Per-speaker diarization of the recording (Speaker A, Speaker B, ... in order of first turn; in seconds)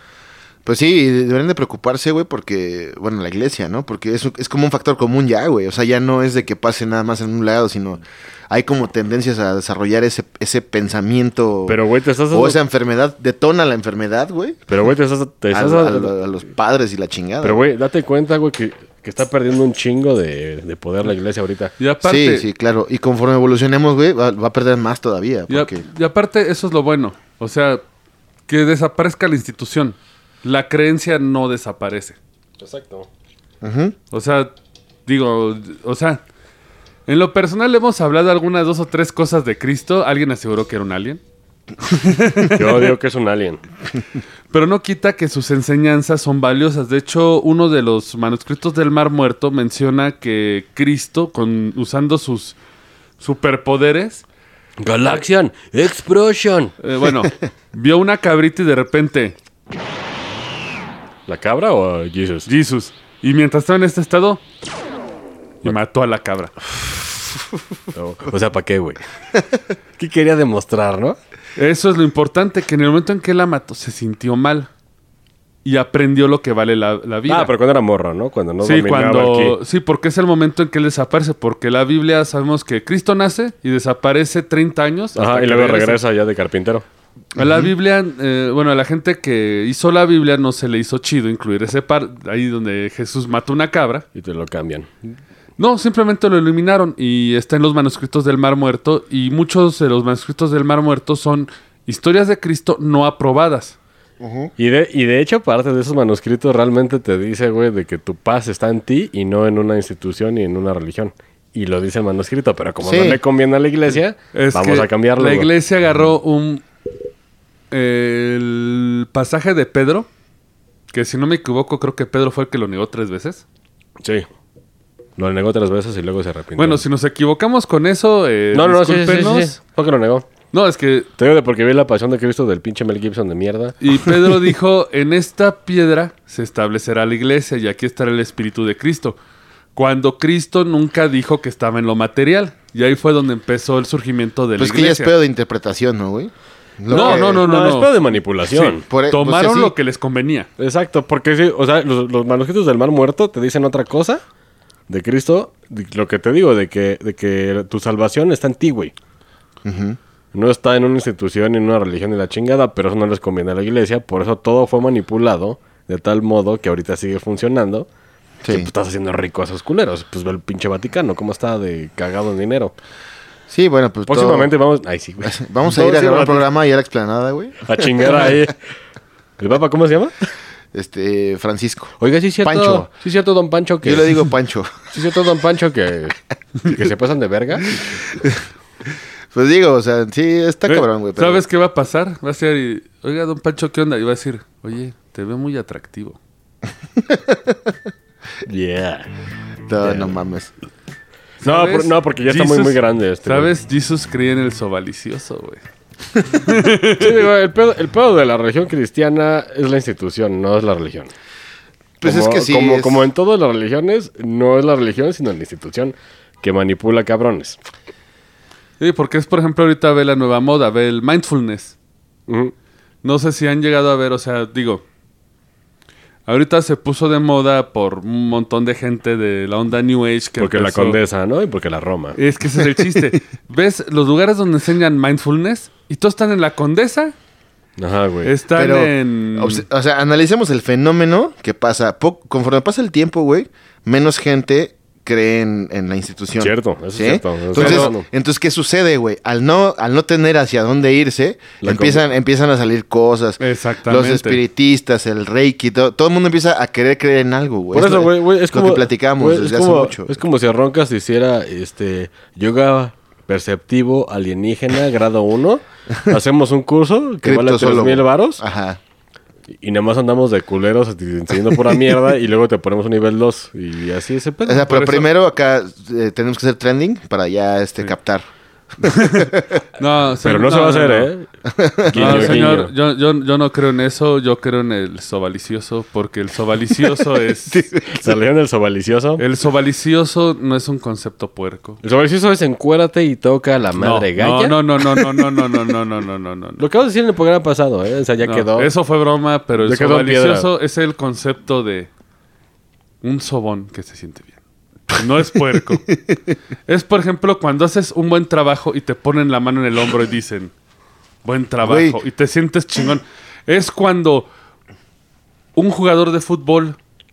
Speaker A: 0.7-11.8, 12.3-14.7, 15.5-17.6, 22.0-25.8, 33.6-34.0, 87.4-87.7, 104.2-104.5, 112.8-113.2, 144.6-147.4, 148.9-149.7, 159.6-160.0, 168.4-168.7, 173.5-174.5, 175.2-178.4, 180.7-182.9, 183.8-184.9, 189.3-191.4, 197.1-197.6, 199.7-200.5, 212.0-213.1, 238.6-260.1, 267.2-268.8, 274.4-278.3, 278.8-279.6, 281.5-282.5, 287.5-288.1, 311.6-312.0
Speaker B: 11.7-12.6, 14.7-16.1, 17.4-21.7, 32.6-33.1, 42.5-43.6, 54.8-56.8, 61.3-62.5, 67.9-69.0, 70.0-71.2, 77.3-79.6, 85.2-86.8, 94.2-95.2, 104.6-115.5, 124.0-124.3, 125.2-126.8, 128.5-130.2, 131.2-134.4, 146.9-148.9, 150.6-154.2, 154.9-158.9, 160.3-167.9, 168.5-172.7, 174.1-176.5, 177.7-178.6, 179.4-180.1, 182.0-184.3, 184.9-188.0, 198.5-199.1, 199.8-200.2, 201.4-203.5, 207.0-211.1, 212.0-217.6, 222.3-222.5, 230.4-232.2, 237.8-238.3, 246.4-248.1, 251.6-252.1, 257.7-268.4, 269.5-274.7, 280.2-281.3, 281.9-282.7, 287.9-289.2, 291.8-294.6, 296.6-298.7, 299.6-300.5
Speaker C: 21.8-22.5, 25.5-27.8, 28.5-32.2, 34.1-34.5, 35.1-36.2, 37.1-41.2, 41.8-42.9, 44.5-52.6, 53.2-54.2, 56.8-59.4, 62.5-64.4, 65.6-66.7, 71.6-74.7, 75.7-77.5, 78.6-86.0, 87.3-94.0, 95.6-103.8, 114.3-116.7, 117.7-120.1, 120.9-123.4, 126.6-129.6, 130.5-131.1, 133.8-139.2, 139.8-145.1, 146.9-150.5, 190.7-196.2, 201.4-205.6, 206.3-207.3, 218.8-221.8, 223.0-224.8, 226.3-231.0, 232.2-237.1, 238.2-239.7, 247.6-248.0, 253.4-254.4, 274.7-275.1, 278.9-281.1, 281.9-287.6, 289.2-291.8, 293.8-296.6, 298.2-301.9, 303.0-304.4, 304.9-305.8, 306.7-310.5, 311.2-314.3, 315.6-316.8